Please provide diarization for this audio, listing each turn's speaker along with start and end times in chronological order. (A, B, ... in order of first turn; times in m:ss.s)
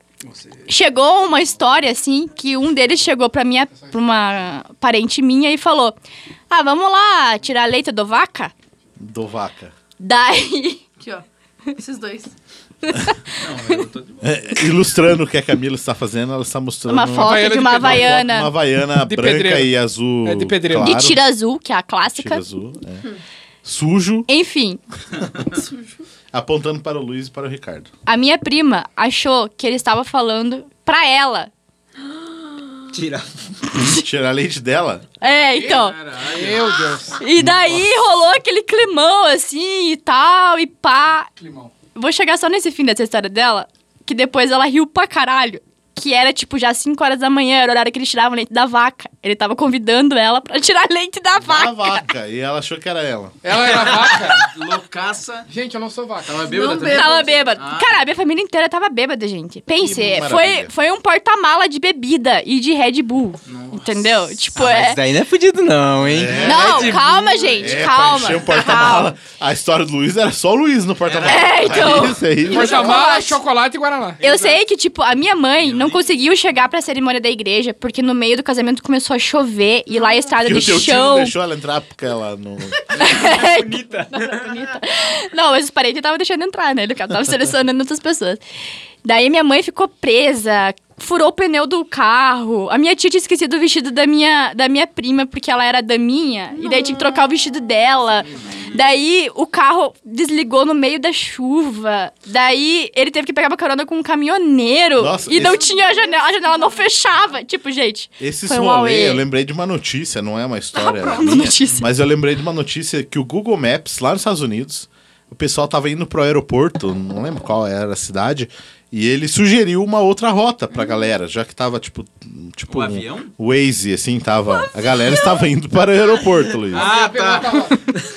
0:00.3-0:00.7 A
0:00.7-0:06.0 B
0:06.5-0:08.5 B
0:09.0-0:09.7 C
0:10.0-0:10.8 B
0:11.8-0:12.3 D
0:12.8-0:13.8 B
0:13.4-0:14.6 A
0:14.2-0:21.3 C
0:16.9-0:18.5 B
0:17.2-0:18.2 E
0:19.0-0:19.7 E
0:20.2-0:20.9 E
0:20.8-0:22.4 B
0:22.1-0:23.0 C
0:23.6-0:24.3 C
0:24.3-0:24.8 B
0:26.3-0:27.9 C
0:28.0-0:31.5 B
0:32.5-0:32.8 D
0:32.9-0:33.2 F
0:33.7-0:35.0 C
0:35.2-0:36.0 B
0:35.5-0:37.2 E
0:35.7-0:36.6 A
0:37.2-0:41.3 B
0:41.4-0:41.7 E
0:41.9-0:52.0 B
0:51.4-0:53.4 C
0:53.4-0:54.4 E
0:53.6-0:55.5 A
0:55.5-0:56.6 E
0:56.2-0:58.0 A
0:56.4-0:57.5 D
0:56.8-1:05.0 B
0:59.8-1:00.7 C
1:03.5-1:04.4 A
1:04.5-1:07.0 F
1:06.0-1:13.1 C
1:06.3-1:08.1 A
1:06.4-1:09.1 B
1:11.0-1:12.0 A
1:11.2-1:13.4 B
1:12.5-1:14.2 E
1:14.2-1:21.3 B
1:14.2-1:14.6 A
1:15.6-1:16.0 A
1:20.4-1:22.8 C
1:23.0-1:28.4 B
1:23.0-1:24.5 F
1:29.0-1:49.2 B
1:36.5-1:37.4 D
1:45.0-1:45.6 C
1:45.3-1:47.2 D
1:48.2-2:06.9 C
1:50.8-1:51.2 D
1:50.9-1:51.8 B
2:02.7-2:03.3 A
2:04.5-2:05.4 D
2:06.7-2:07.8 A
2:06.7-2:07.8 E